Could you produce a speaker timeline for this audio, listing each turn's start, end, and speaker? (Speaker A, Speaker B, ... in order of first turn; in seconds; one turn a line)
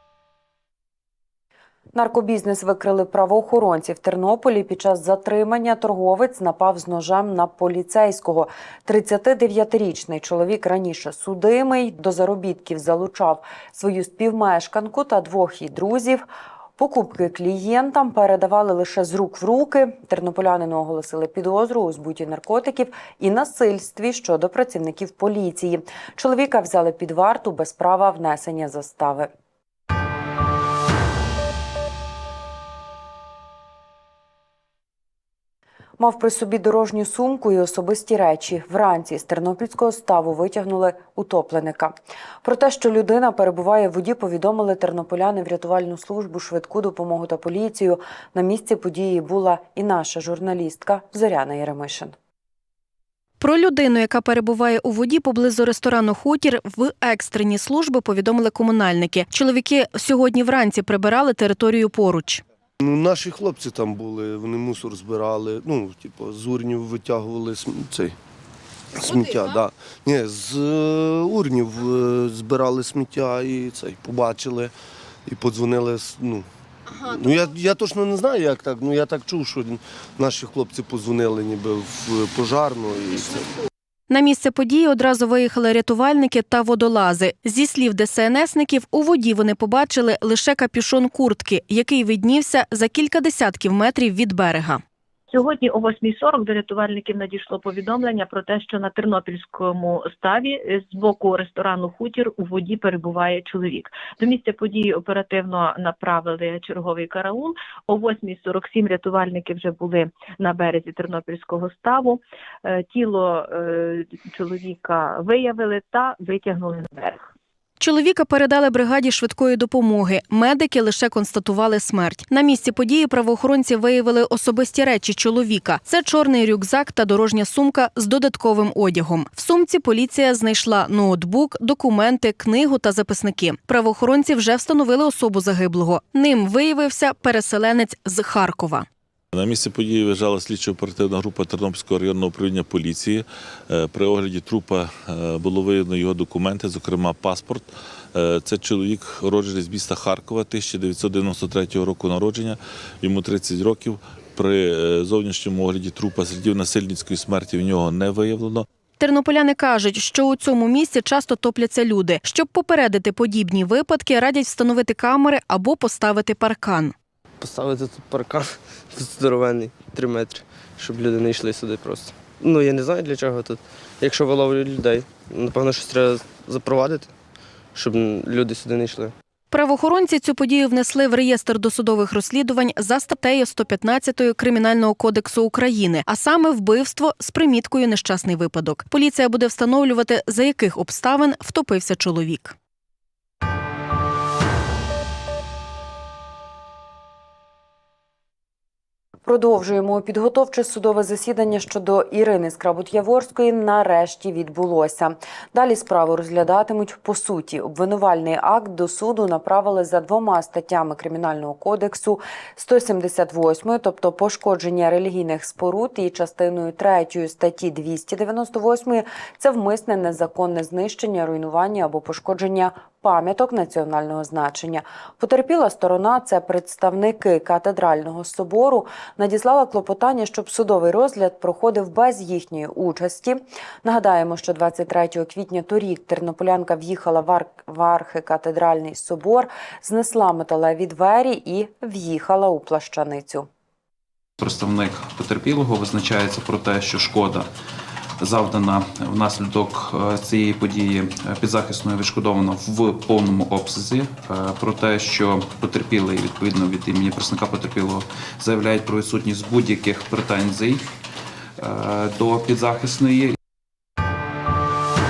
Speaker A: 1.9-16.2
Speaker A: 16.8-29.3
Speaker A: 36.0-52.1
Speaker B: 53.4-62.4
Speaker C: 62.8-68.2
Speaker C: 69.0-74.7
Speaker C: 75.3-83.5
Speaker B: 84.1-94.8
Speaker D: 95.3-117.3
Speaker B: 117.8-138.9
Speaker E: 139.3-158.7
Speaker B: 159.0-166.9
Speaker F: 167.4-177.1
Speaker F: 177.8-179.1
Speaker B: 179.5-192.6
Speaker A: 199.2-243.5
Speaker G: 244.4-247.5
Speaker G: 248.2-260.9
Speaker G: 261.6-263.4